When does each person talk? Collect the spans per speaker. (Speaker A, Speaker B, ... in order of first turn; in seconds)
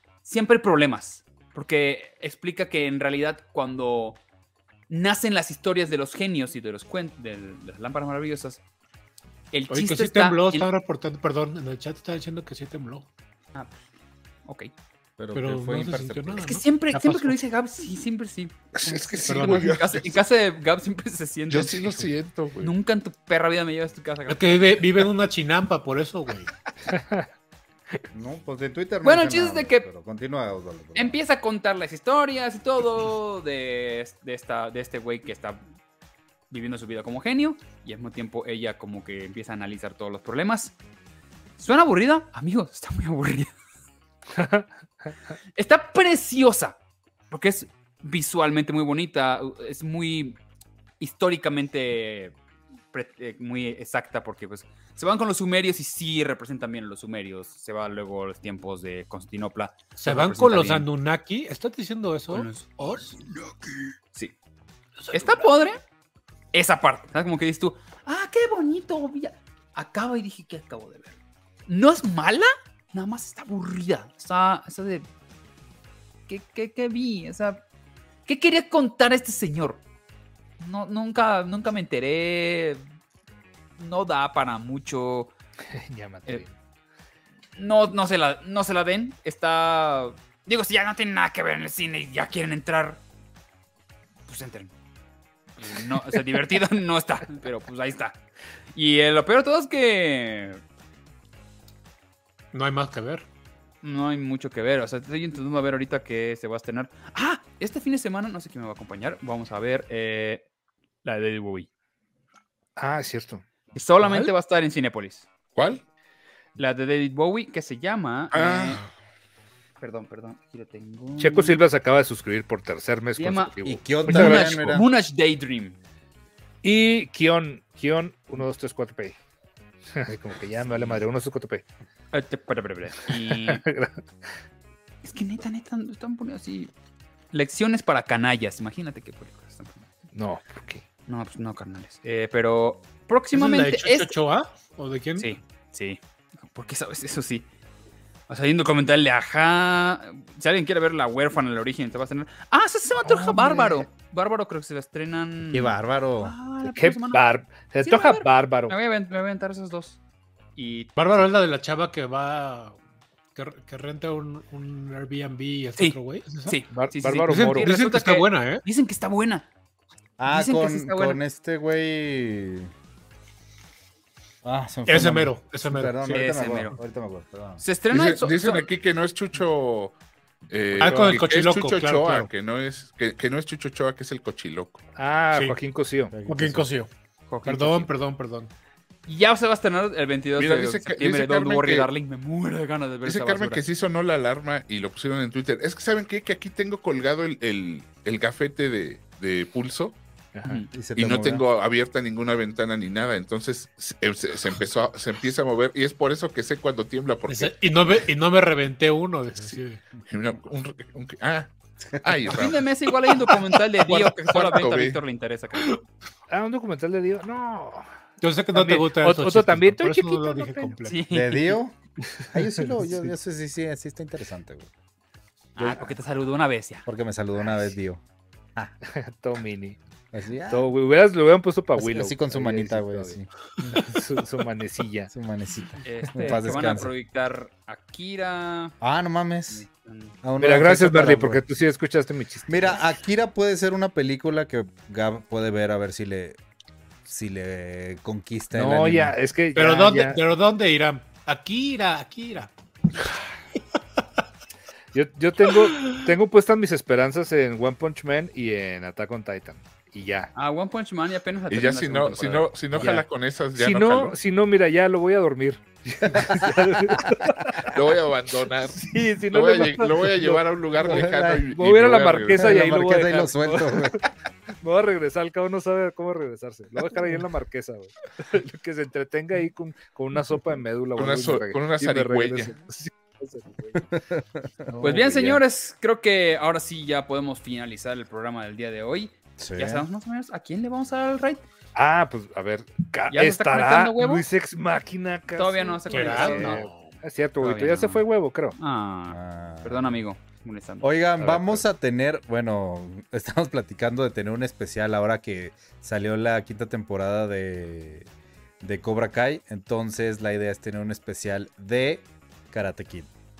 Speaker A: 0.2-4.2, 4.9-8.6, 9.5-10.7, 14.4-14.7, 16.4-22.0, 22.6-24.8, 29.0-29.8, 30.9-35.6, 36.5-40.7, 41.6-43.5, 45.5-46.8, 47.3-50.4, 51.0-52.3, 52.9-60.9, 62.3-63.1, 65.1-65.8, 66.5-71.2, 71.7-75.0, 76.3-77.6, 78.3-79.8, 80.6-82.8, 83.8-85.3, 87.6-93.0, 94.3-94.7, 95.6-98.2, 98.7-100.6, 103.8-110.4, 111.0-111.7, 113.7-115.3, 116.6-118.8, 119.8-121.6, 123.2-125.8, 130.7-131.0, 132.1-133.6, 135.0-136.7, 137.3-139.8, 141.1-144.2, 145.2-146.0, 146.5-147.5, 148.3-160.0, 160.6-160.9, 165.8-169.4, 170.3-171.2, 176.1-176.8, 177.6-178.7, 180.8-181.2, 187.3-187.9, 189.1-193.6, 200.4-200.7, 212.3-215.7, 220.8-221.6, 225.6-226.9, 235.8-238.7, 239.5-240.1, 260.3-262.9, 284.8-291.4, 293.1-294.2, 295.3-296.7, 297.4-298.0, 298.6-300.9
Speaker B: 9.7-13.1, 15.3-17.4, 19.2-19.8, 24.3-26.5, 60.0-63.2, 65.0-65.5, 102.5-103.2, 143.3-145.3, 160.9-162.8, 163.3-166.6, 167.3-168.6, 174.9-176.2, 180.8-182.3, 185.3-185.6, 186.2-186.9, 187.4-188.5, 207.3-209.8, 218.2-221.0, 249.5-253.6, 255.5-256.0, 295.9-296.9
Speaker C: 15.2-16.6, 28.1-31.2, 123.6-124.9, 155.5-156.3, 170.2-172.7, 174.4-177.6, 186.1-186.7, 200.7-201.4, 221.1-221.8, 222.3-224.7, 225.6-225.9, 226.9-228.0, 230.1-230.7, 231.8-233.3, 235.1-236.9, 238.8-239.7, 240.2-241.4, 242.5-246.4, 247.1-249.2, 266.1-267.0, 270.8-271.4, 272.4-274.0, 283.9-284.7, 289.4-289.9, 299.1-300.0, 300.8-308.1, 308.6-313.1
Speaker D: 18.7-20.2, 21.5-22.7, 115.5-115.8, 118.3-118.9, 177.9-179.9, 180.5-184.8, 190.3-191.9, 193.0-200.0, 200.9-207.5, 209.4-212.6, 213.9-215.0, 261.5-264.1, 267.7-272.6, 280.9-282.5
Speaker E: 26.9-27.3, 44.3-44.6, 85.7-86.5, 112.8-113.4, 121.2-124.8, 126.6-129.2, 129.9-131.6, 133.3-134.0, 140.1-140.8, 156.6-158.8, 166.7-167.7, 184.9-186.1, 200.3-200.6, 216.3-217.8, 218.5-220.8, 228.8-229.8, 230.5-235.1, 240.4-242.8, 248.5-250.2, 254.9-260.3, 262.7-267.7, 268.8-274.0, 274.6-283.9, 284.7-285.4, 291.7-298.6, 301.2-301.6